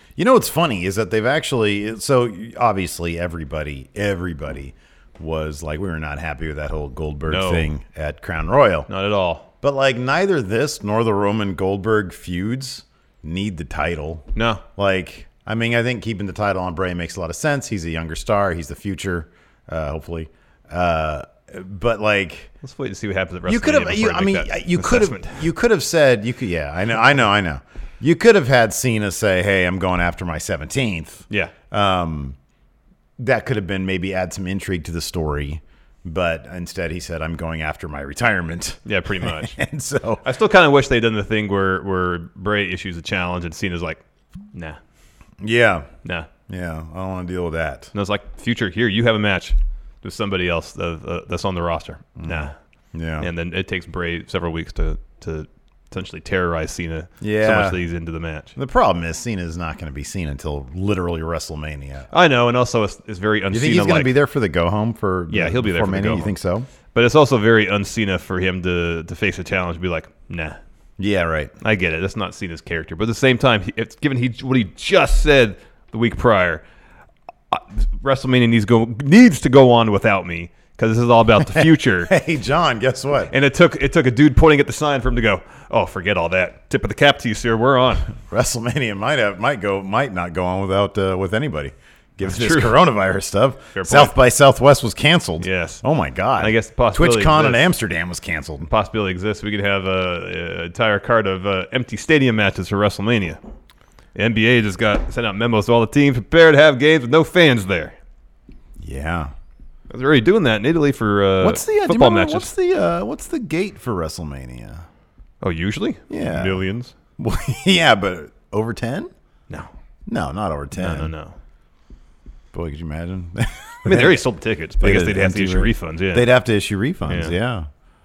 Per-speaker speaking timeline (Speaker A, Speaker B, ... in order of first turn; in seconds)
Speaker A: 0.2-8.9, 9.6-22.5, 23.4-32.4, 33.2-40.2, 45.4-45.9, 46.5-47.9, 52.2-53.3, 57.2-57.8, 58.5-62.1, 63.5-66.7, 71.0-71.5, 81.5-83.3, 88.2-98.7, 108.8-109.3, 111.4-114.8, 116.1-116.6, 117.2-119.1, 120.1-121.1, 122.5-124.2, 124.8-127.7
Speaker B: 7.3-7.7, 8.9-9.4, 14.3-14.6, 22.6-25.4, 38.9-39.6, 40.2-44.0, 44.5-44.8, 47.9-52.5, 53.2-58.5, 62.1-64.1, 65.3-66.3, 66.9-70.6, 71.6-76.6, 77.5-82.1, 83.3-88.1, 92.2-92.8, 93.8-94.1, 95.4-95.8, 96.4-97.6, 98.7-103.4, 104.1-108.0, 109.9-112.5, 115.4-116.9, 120.7-121.3, 123.8-126.3, 127.1-127.3